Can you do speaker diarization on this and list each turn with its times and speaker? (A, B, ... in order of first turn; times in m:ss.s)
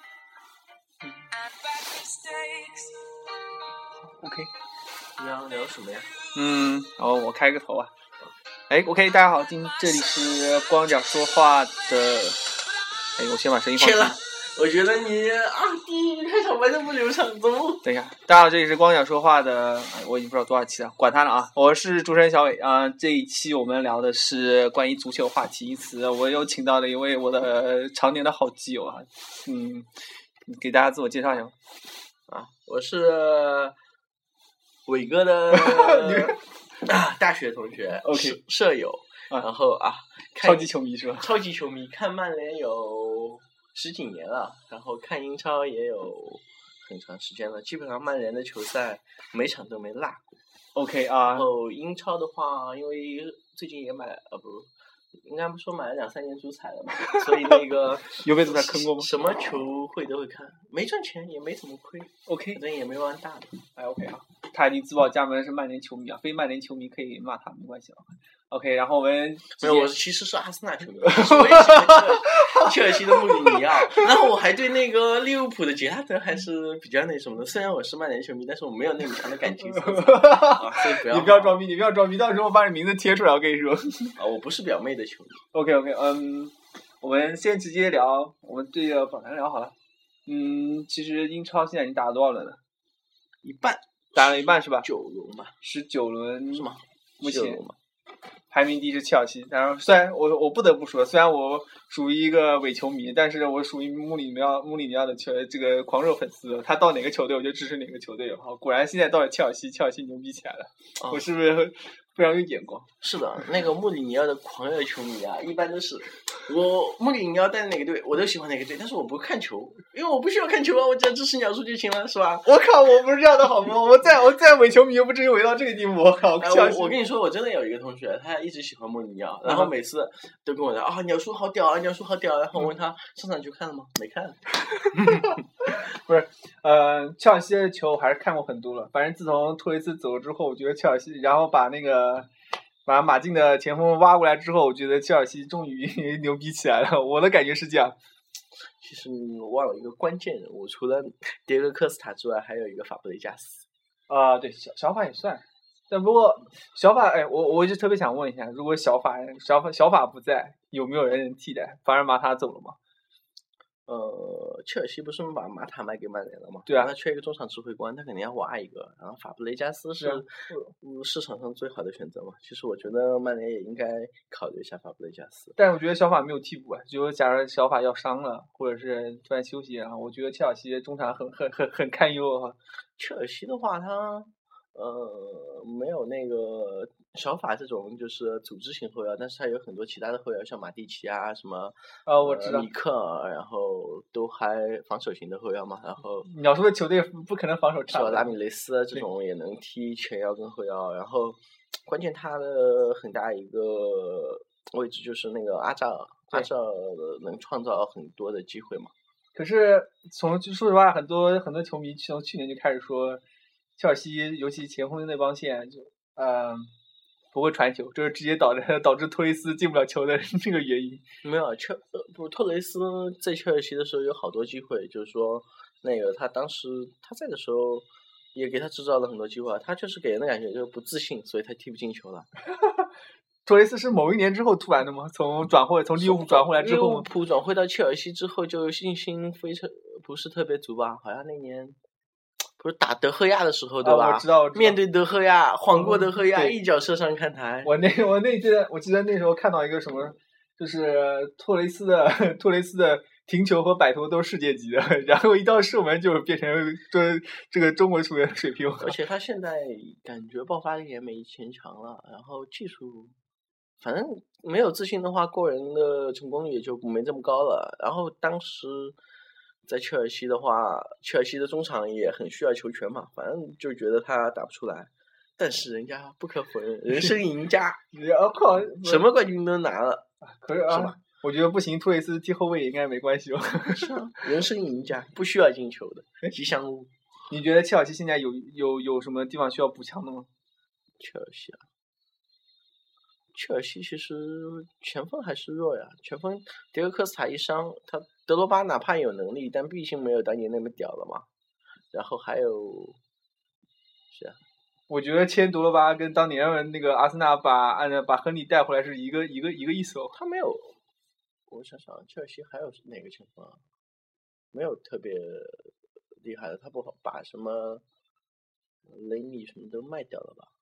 0:01.3-0:03.0 A
0:04.0-0:04.5 B
0:05.2-0:06.1 C
0:06.3-0:07.9 B
0:08.7-0:12.4 B
0:09.9-0:10.2 A
0:13.2-0:14.2 B
0:13.8-0:17.8 C
0:17.8-0:29.9 B
0:30.5-0:31.5 B
0:32.3-0:33.7 C
0:34.8-0:50.2 C
0:35.5-0:36.4 B
0:38.0-0:38.4 B
0:40.4-0:41.3 B
0:50.7-0:51.4 B
0:51.3-0:54.7 C
0:55.2-1:03.6 C
0:57.1-0:59.1 B
1:02.2-1:02.6 B
1:03.8-1:09.9 B
1:09.6-1:21.6 C
1:11.0-1:14.0 B
1:19.6-1:24.2 B
1:24.2-1:25.4 C
1:25.5-1:29.7 B
1:30.3-1:32.6 B
1:33.4-1:35.5 C
1:34.1-1:34.9 B
1:35.6-1:36.7 B
1:36.5-1:37.8 C
1:37.2-1:37.6 B
1:38.5-1:52.9 B
1:53.0-2:02.5 C
2:02.4-2:06.9 B
2:06.4-2:14.4 C
2:09.4-2:09.7 B
2:14.8-2:22.3 B
2:14.9-2:15.3 C
2:22.8-2:27.9 B
2:28.8-2:33.6 C
2:34.1-2:42.8 B
2:43.9-2:50.3 C
2:50.0-2:50.7 B
2:50.8-2:55.5 C
2:55.6-3:02.6 B
3:03.0-3:16.3 C
3:12.0-3:12.7 B
3:16.2-3:18.3 B
3:17.9-3:28.9 C
3:29.3-3:33.2 B
3:33.8-3:36.7 B
3:37.3-3:41.0 B
3:41.2-3:52.3 C
3:53.4-3:57.0 B
3:56.0-4:01.8 C
4:02.6-4:07.7 C
4:03.8-4:04.8 B
4:05.7-4:06.5 B
4:07.6-4:18.9 B
4:18.8-4:23.1 C
4:23.8-4:29.0 C
4:29.6-4:37.8 C
4:37.9-4:39.0 B
4:38.8-4:40.0 C
4:40.2-4:43.9 B
4:40.7-4:41.0 C
4:43.7-4:46.9 C
4:47.3-4:50.3 B
4:51.0-4:51.6 C
4:53.3-5:01.2 C
5:01.9-5:03.0 C
5:04.1-5:04.4 C
5:04.9-5:10.1 B
5:10.1-5:10.8 C
5:11.5-5:13.6 C
5:14.5-5:15.7 C
5:16.2-5:17.8 C
5:18.9-5:20.5 C